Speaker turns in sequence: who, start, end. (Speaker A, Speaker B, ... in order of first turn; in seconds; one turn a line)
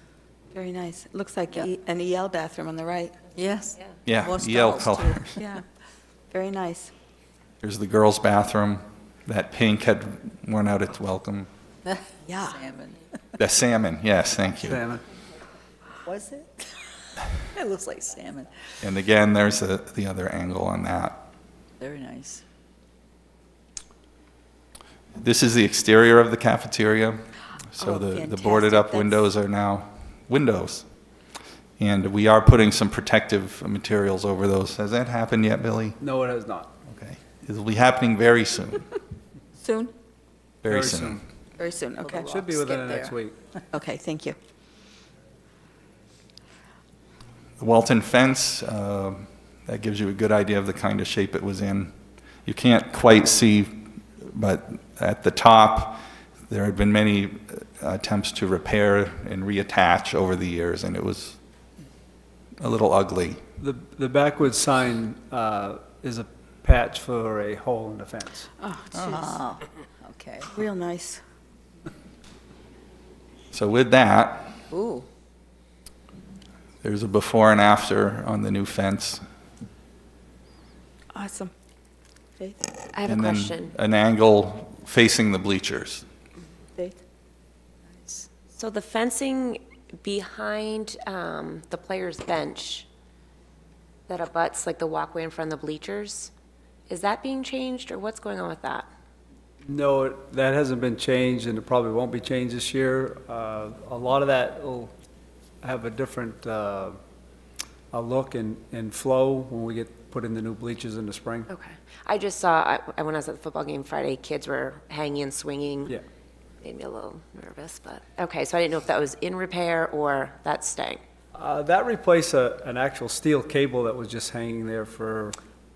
Speaker A: 0.5-3.1
Speaker B: 3.4-5.4
Speaker C: 4.1-5.4
Speaker A: 5.2-5.6
Speaker A: 6.3-6.9
Speaker C: 7.6-11.5
Speaker B: 11.9-13.0
Speaker A: 12.2-12.6
Speaker C: 13.4-14.8
Speaker D: 14.6-15.0
Speaker B: 16.1-18.5
Speaker C: 18.8-21.2
Speaker B: 21.8-22.4
Speaker C: 25.2-27.2
Speaker C: 27.7-30.9
Speaker A: 27.8-29.2
Speaker C: 31.8-36.0
Speaker D: 36.0-36.7
Speaker C: 36.9-38.9
Speaker A: 39.6-39.9
Speaker C: 40.6-41.2
Speaker D: 40.6-41.2
Speaker A: 41.6-42.3
Speaker B: 42.0-43.2
Speaker D: 42.1-43.4
Speaker A: 43.7-44.4
Speaker C: 47.6-51.9
Speaker C: 52.5-61.4
Speaker C: 62.6-63.4
Speaker D: 63.6-68.5
Speaker A: 68.6-69.4
Speaker B: 68.9-70.5
Speaker A: 70.5-71.2
Speaker C: 73.5-74.6
Speaker B: 74.7-75.1
Speaker C: 76.8-79.2
Speaker A: 81.1-81.5
Speaker E: 82.9-83.8
Speaker C: 83.1-86.0
Speaker B: 88.0-88.3
Speaker E: 88.5-92.9
Speaker E: 94.1-96.3
Speaker E: 96.9-98.9
Speaker D: 99.6-104.9
Speaker D: 105.6-107.0
Speaker D: 107.9-111.5
Speaker E: 111.5-116.0
Speaker E: 116.6-121.0
Speaker D: 121.3-125.4